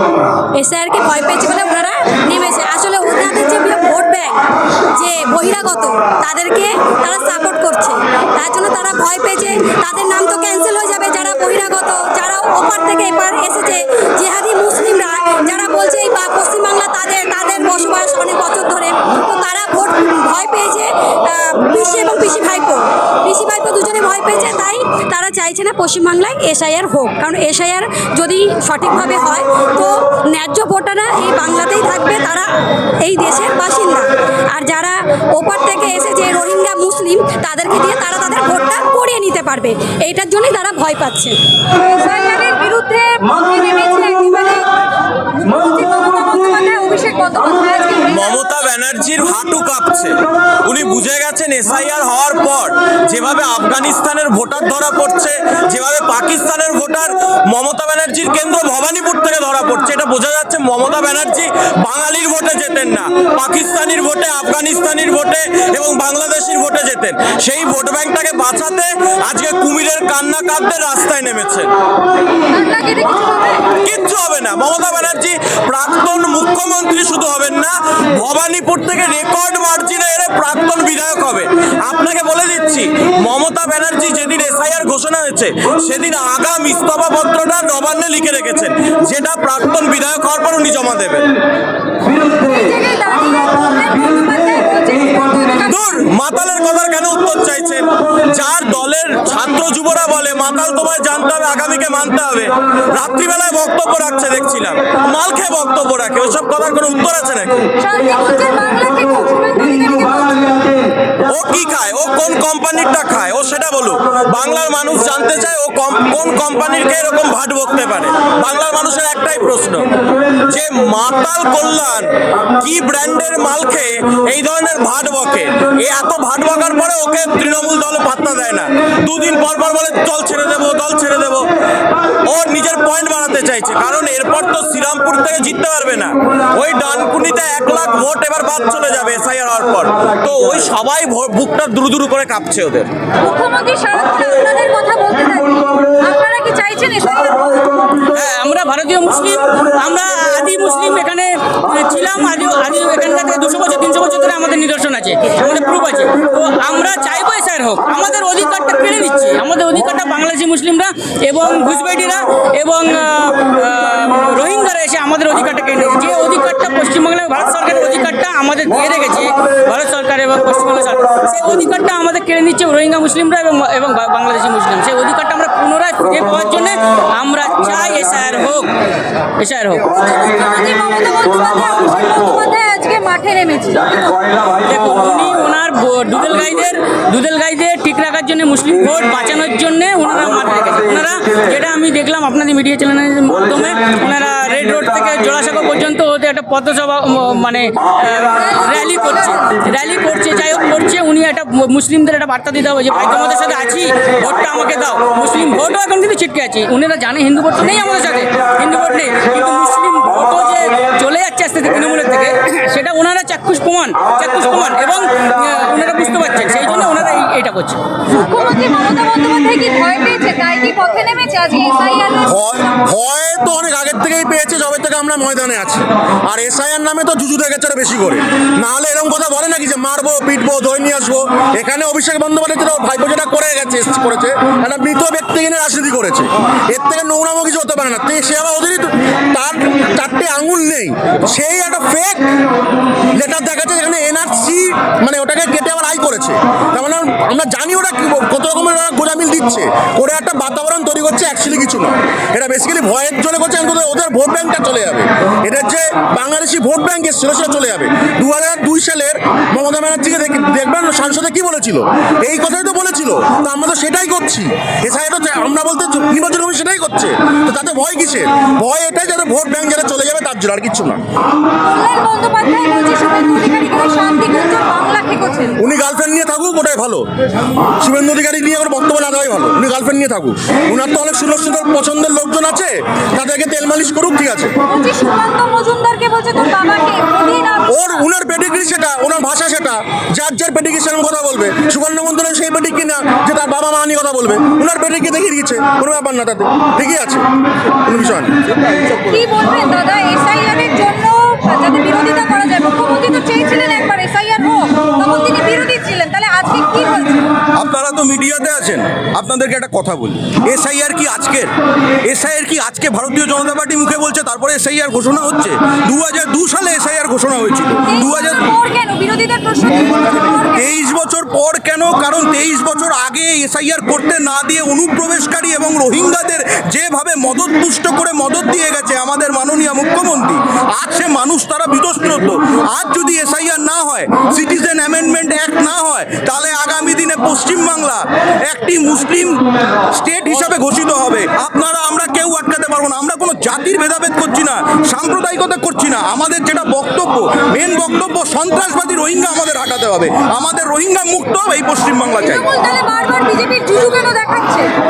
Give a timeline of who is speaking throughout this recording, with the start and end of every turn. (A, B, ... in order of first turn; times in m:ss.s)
0:00.5-0:32.5 A
0:33.0-0:41.4 A
0:41.8-0:44.7 B
0:45.4-0:48.2 B
0:48.1-1:11.7 C
1:12.5-1:13.7 B
1:13.8-1:31.3 C
1:32.3-1:35.8 B
1:35.7-1:47.7 C
1:47.8-1:50.6 B
1:51.3-1:59.9 C
2:00.4-2:11.4 C
2:12.3-2:22.9 C
2:23.2-2:27.8 B
2:28.0-2:58.7 D
2:59.4-2:59.9 D
2:59.9-3:04.1 B
3:04.4-3:37.8 D
3:38.2-3:42.3 B
3:42.3-4:02.3 E
4:03.1-4:31.0 E
4:31.6-4:35.5 B
4:35.6-4:37.0 E
4:37.8-4:44.5 E
4:44.6-4:48.0 B
4:47.7-4:57.2 E
4:57.8-4:58.3 E
4:59.1-5:07.2 B
5:07.6-5:08.6 C
5:09.2-5:10.0 A
5:09.3-5:11.4 C
5:10.7-5:11.4 A
5:12.1-5:18.2 C
5:12.1-5:18.4 A
5:17.9-5:20.7 B
5:20.6-5:38.0 C
5:21.1-5:22.4 A
5:23.8-5:24.1 A
5:38.5-5:39.3 C
5:40.0-5:52.1 C
5:43.4-5:43.8 A
5:44.5-5:44.8 A
5:46.1-5:48.6 A
5:49.2-5:52.4 A
5:52.2-5:54.7 B